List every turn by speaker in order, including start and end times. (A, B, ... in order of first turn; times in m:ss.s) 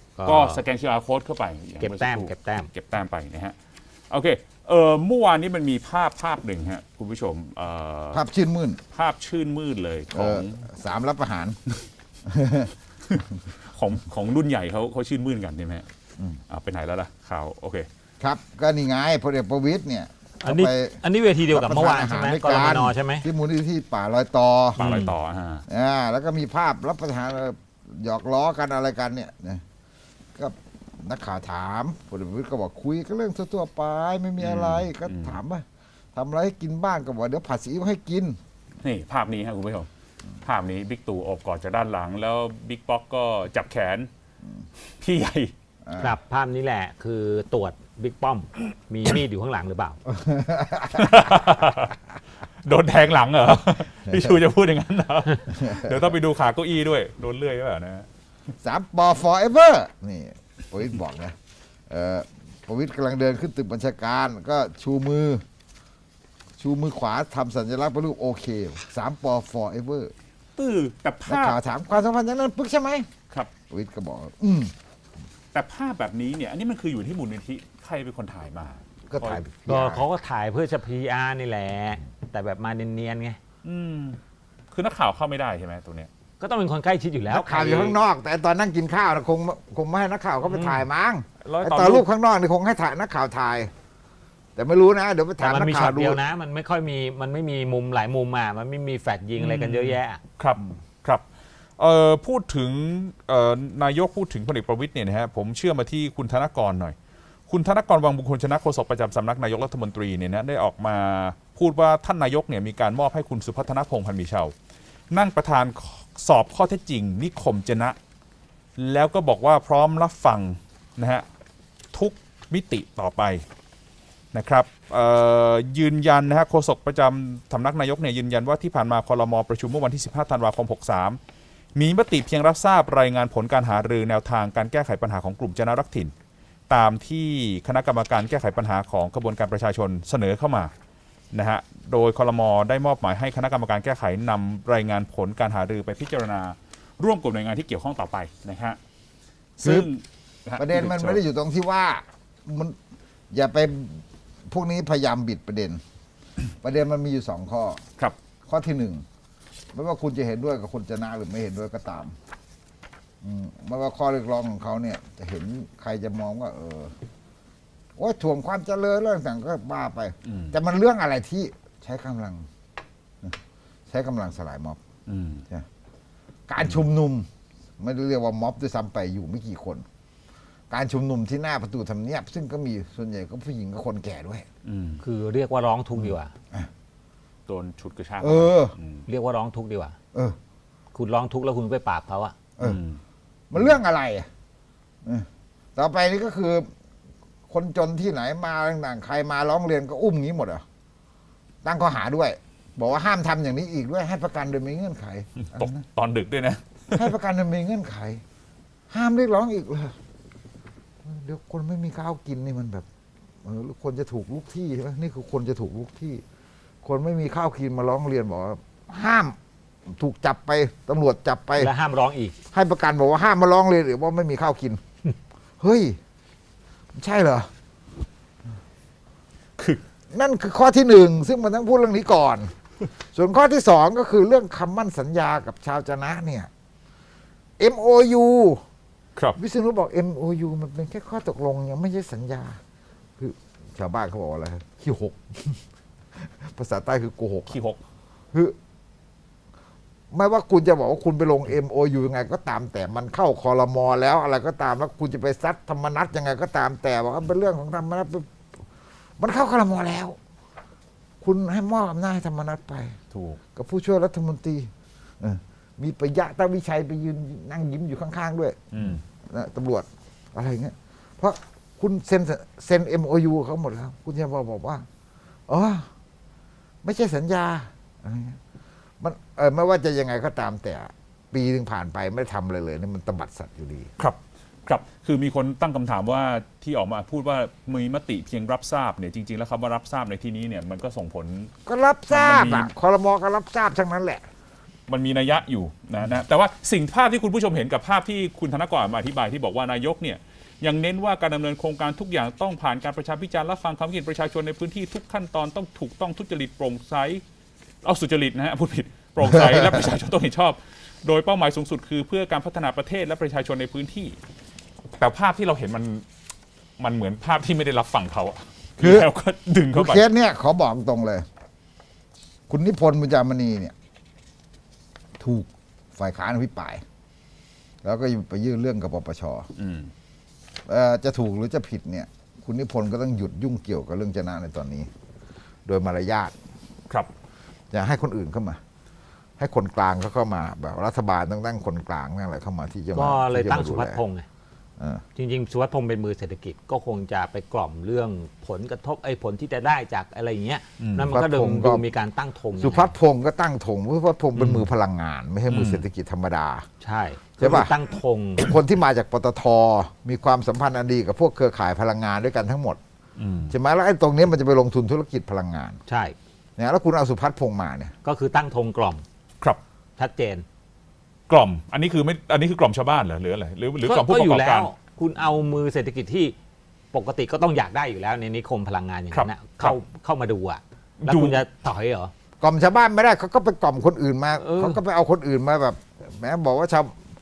0:00.2-0:00.6 A
0:00.2-0:03.5 B
0:01.8-0:02.7 A
0:04.1-0:08.2 B
0:08.1-0:08.8 C
0:08.9-0:10.6 B
0:10.1-0:11.6 C
0:12.2-0:12.7 C
0:13.1-0:15.8 B
0:16.5-0:17.9 B
0:18.2-0:24.8 C
0:20.4-0:23.2 A
0:24.8-0:25.6 B
0:24.8-0:25.1 A
0:25.7-0:29.6 C
0:30.4-0:35.6 C
0:34.4-0:35.4 B
0:36.1-0:38.4 C
0:38.8-0:39.9 B
0:40.4-0:44.1 B
0:45.0-0:45.5 B
0:45.8-0:46.2 C
0:46.0-0:50.0 A
0:50.1-0:51.3 C
0:50.9-0:52.0 B
0:52.6-0:58.1 B
0:54.1-0:54.4 C
0:55.6-0:56.1 C
0:58.6-1:01.4 C
1:01.9-1:05.4 C
1:06.6-1:10.1 C
1:10.6-1:11.6 B
1:11.2-1:13.1 C
1:13.7-1:14.7 C
1:15.5-1:19.4 B
1:19.1-1:20.0 C
1:19.7-1:23.4 A
1:23.6-1:24.2 B
1:24.7-1:26.1 B
1:26.4-1:28.0 A
1:27.3-1:33.7 C
1:30.5-1:30.8 A
1:31.4-1:32.0 B
1:34.6-1:36.2 C
1:35.4-1:40.2 A
1:39.4-1:41.2 B
1:41.8-1:47.0 B
1:47.5-1:54.5 B
1:55.1-1:58.0 B
1:58.8-2:01.2 B
2:01.9-2:03.4 B
2:04.3-2:11.2 B
2:11.8-2:16.1 B
2:16.7-2:20.7 B
2:21.3-2:28.8 B
2:29.6-2:31.2 B
2:29.6-2:29.9 C
2:30.6-2:32.8 C
2:33.3-2:35.8 C
2:36.6-2:37.8 C
2:38.5-2:39.0 C
2:39.7-2:42.1 C
2:43.2-2:46.9 C
2:48.0-2:52.5 C
2:50.2-2:50.6 B
2:53.9-2:54.8 C
2:55.1-2:55.4 B
2:56.5-2:57.3 C
2:57.8-2:59.8 C
3:00.7-3:04.4 C
3:04.6-3:05.0 B
3:05.0-3:06.3 A
3:07.5-3:09.1 B
3:08.2-3:08.7 C
3:09.1-3:09.9 A
3:10.9-3:12.3 A
3:12.6-3:13.0 B
3:13.5-3:14.3 C
3:15.0-3:16.7 C
3:17.5-3:20.6 C
3:21.6-3:25.8 C
3:25.4-3:27.1 B
3:27.0-3:28.2 C
3:28.9-3:30.0 C
3:31.0-3:32.9 C
3:33.4-3:36.2 C
3:36.8-3:39.4 C
3:39.9-3:41.7 C
3:41.6-3:42.4 A
3:42.5-3:44.8 C
3:45.6-3:46.0 C
3:46.9-3:47.5 C
3:50.1-3:52.5 C
3:53.1-3:56.5 C
3:57.6-3:58.6 C
3:59.4-4:02.6 C
4:03.2-4:05.6 C
4:06.2-4:07.6 C
4:07.5-4:07.8 B
4:10.1-4:18.3 C
4:19.2-4:20.2 C
4:21.2-4:23.0 C
4:23.1-4:23.4 B
4:23.6-4:34.9 C
4:28.7-4:29.0 B
4:35.5-4:35.9 C
4:36.8-4:38.4 C
4:39.0-4:43.9 C
4:44.0-4:51.5 B
4:51.6-4:54.2 C
4:52.1-4:52.7 B
4:54.9-5:07.2 B
5:07.8-5:14.2 B
5:15.0-5:16.0 B
5:16.8-5:20.0 B
5:18.8-5:19.1 C
5:19.7-5:21.2 C
5:22.5-5:23.7 C
5:25.2-5:26.8 C
5:27.8-5:29.5 C
5:29.6-5:29.9 B
5:30.7-5:34.9 C
5:35.6-5:36.4 C
5:37.7-5:38.6 C
5:39.4-5:44.0 C
5:43.0-5:44.2 A
5:44.8-5:45.0 C
5:45.2-5:52.9 A
5:50.8-5:51.1 B
5:51.0-5:51.8 C
5:52.6-5:56.6 C
5:54.4-5:54.6 B
5:55.5-5:55.8 B
5:56.8-5:58.5 A
5:57.4-5:57.7 C
5:58.4-6:02.8 C
6:03.2-6:03.5 B
6:03.5-6:05.8 C
6:05.9-6:06.2 A
6:06.6-6:07.9 C
6:08.0-6:09.0 A
6:10.0-6:10.4 A
6:11.3-6:14.7 B
6:13.8-6:16.4 A
6:16.9-6:22.1 A
6:19.1-6:19.8 B
6:21.0-6:21.4 B
6:22.4-6:26.9 C
6:24.4-6:24.8 A